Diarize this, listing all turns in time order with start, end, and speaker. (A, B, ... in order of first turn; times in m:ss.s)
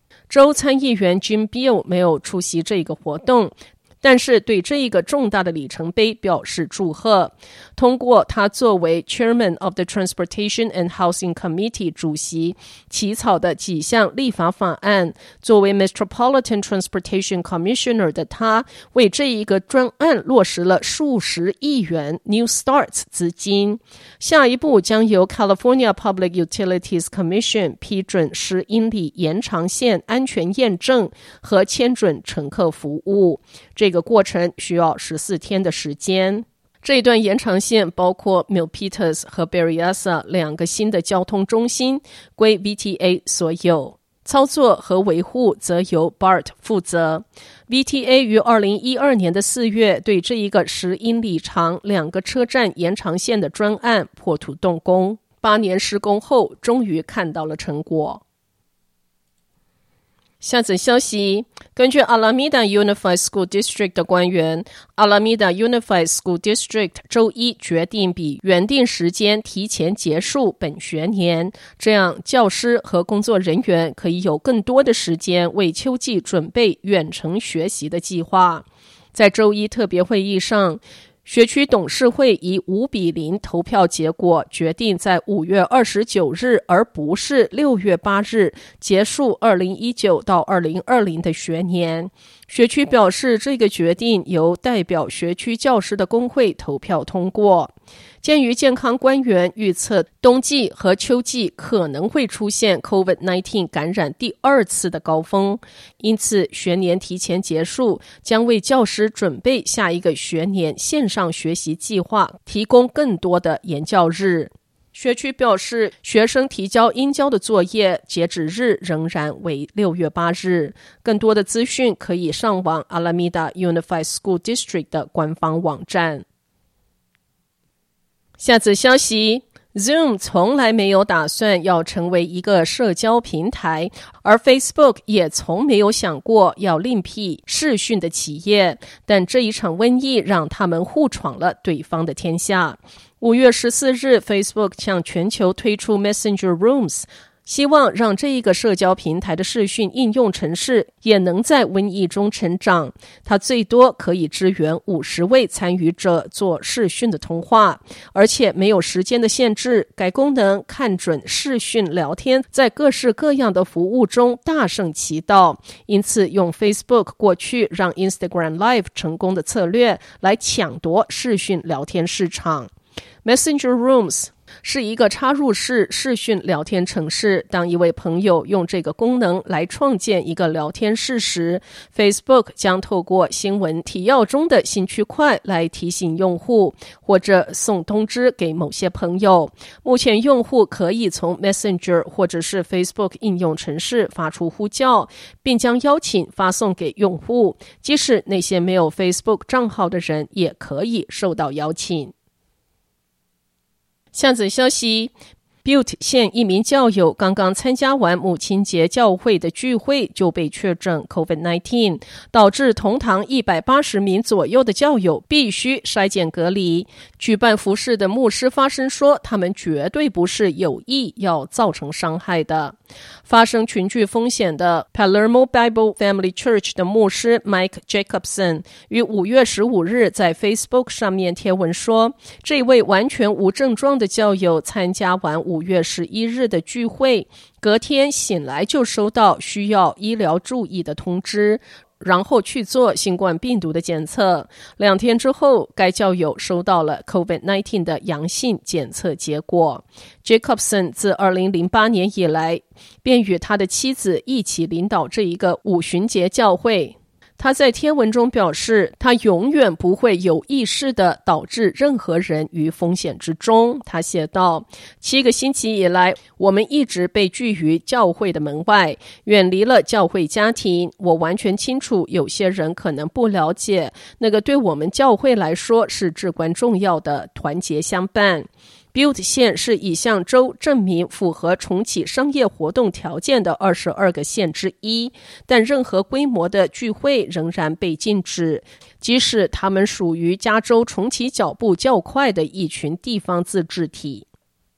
0:00.3-0:58.2 A
1:00.4-2:06.2 A
2:08.4-2:52.7 A
2:53.2-3:22.1 A
3:24.1-3:25.1 A
3:25.6-4:54.3 A